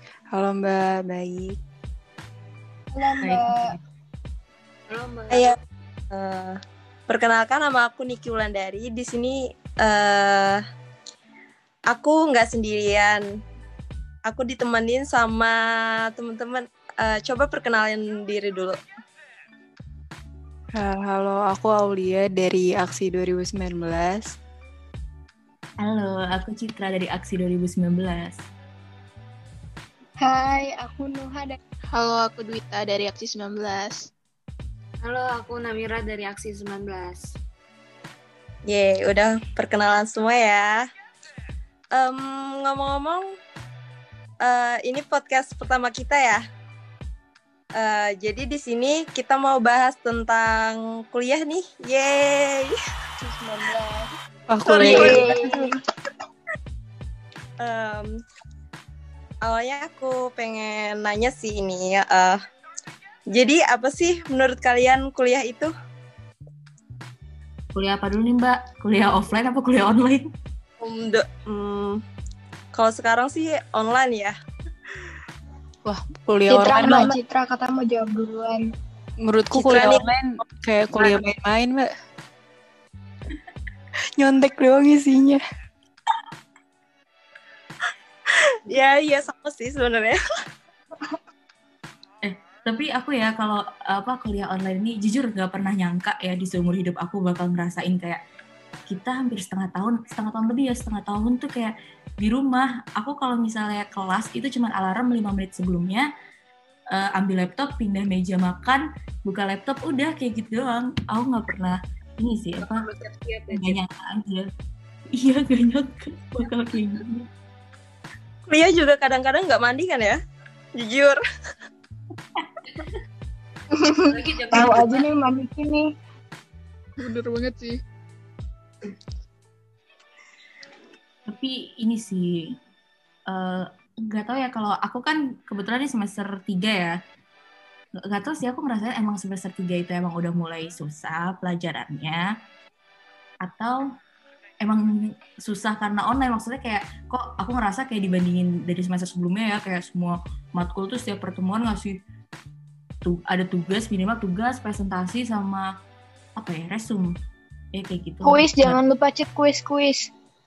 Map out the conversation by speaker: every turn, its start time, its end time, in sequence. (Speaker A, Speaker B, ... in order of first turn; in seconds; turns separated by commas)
Speaker A: 0.3-1.6, Speaker B: 2.9-3.7, Speaker C: 3.2-3.8, Speaker D: 4.9-5.5, Speaker E: 6.1-6.6, Speaker E: 7.1-10.6, Speaker E: 11.9-13.2, Speaker E: 14.3-15.6, Speaker E: 16.1-18.8, Speaker A: 20.8-24.3, Speaker C: 25.8-28.4, Speaker B: 30.2-31.6, Speaker F: 31.9-34.0, Speaker D: 35.0-37.3, Speaker E: 38.7-40.9, Speaker E: 42.0-43.2, Speaker E: 44.5-46.4, Speaker E: 47.8-52.7, Speaker B: 53.2-54.1, Speaker A: 54.5-55.3, Speaker E: 54.6-55.7, Speaker B: 54.7-55.7, Speaker E: 57.6-58.1, Speaker E: 59.5-62.4, Speaker E: 63.3-65.7, Speaker C: 67.7-70.3, Speaker E: 70.8-72.0, Speaker E: 72.7-74.3, Speaker A: 75.8-77.2, Speaker B: 76.5-78.7, Speaker A: 79.2-81.9, Speaker E: 79.5-80.1, Speaker A: 84.2-85.4, Speaker E: 88.7-90.2, Speaker C: 92.2-98.2, Speaker C: 98.9-106.1, Speaker C: 106.9-112.9, Speaker D: 112.6-113.8, Speaker C: 113.5-114.5, Speaker C: 115.1-117.3, Speaker E: 118.5-120.2, Speaker E: 120.8-121.2, Speaker B: 123.8-125.9, Speaker D: 124.1-125.0, Speaker F: 127.0-127.8, Speaker C: 131.3-132.6, Speaker C: 133.3-136.9, Speaker C: 138.1-142.3, Speaker C: 143.4-143.8, Speaker C: 145.4-152.0, Speaker C: 153.0-155.7, Speaker C: 156.4-157.2, Speaker C: 157.7-158.8, Speaker B: 158.2-160.1